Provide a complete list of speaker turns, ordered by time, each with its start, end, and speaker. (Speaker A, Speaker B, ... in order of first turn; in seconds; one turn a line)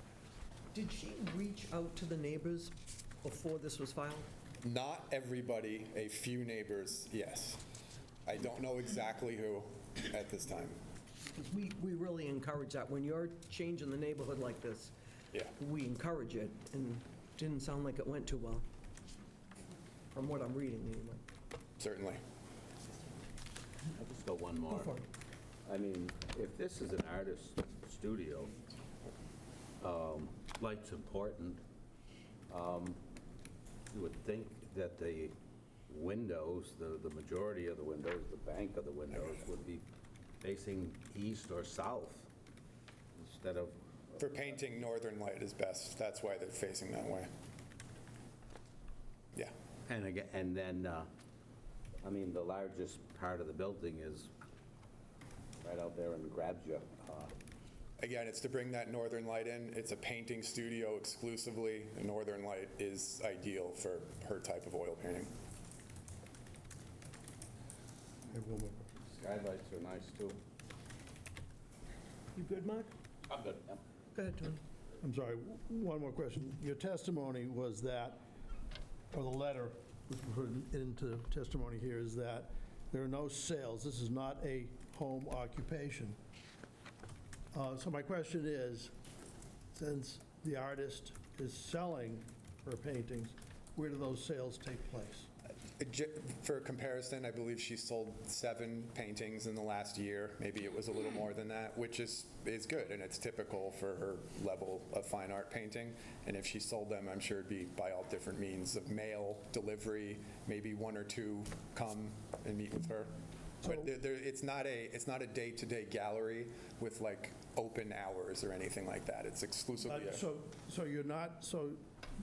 Speaker A: 0.7-4.3
Speaker B: 4.6-7.6
Speaker B: 8.2-10.8
Speaker A: 11.2-14.9
Speaker A: 15.6-18.6
Speaker A: 20.1-21.2
Speaker B: 21.8-22.2
Speaker C: 23.9-25.0
Speaker C: 25.6-28.5
Speaker C: 29.8-31.6
Speaker C: 32.5-33.0
Speaker C: 33.9-35.4
Speaker C: 35.9-39.8
Speaker C: 40.4-42.3
Speaker C: 43.1-43.8
Speaker B: 44.2-47.3
Speaker C: 49.9-51.1
Speaker C: 52.0-54.3
Speaker C: 55.6-57.3
Speaker B: 58.0-65.3
Speaker D: 68.3-68.9
Speaker C: 69.0-70.4
Speaker A: 72.3-72.9
Speaker C: 73.3-73.8
Speaker A: 74.1-74.6
Speaker D: 75.0-78.2
Speaker D: 79.1-86.2
Speaker D: 87.5-88.9
Speaker D: 89.7-95.3
Speaker B: 95.8-120.2
Speaker D: 119.8-121.8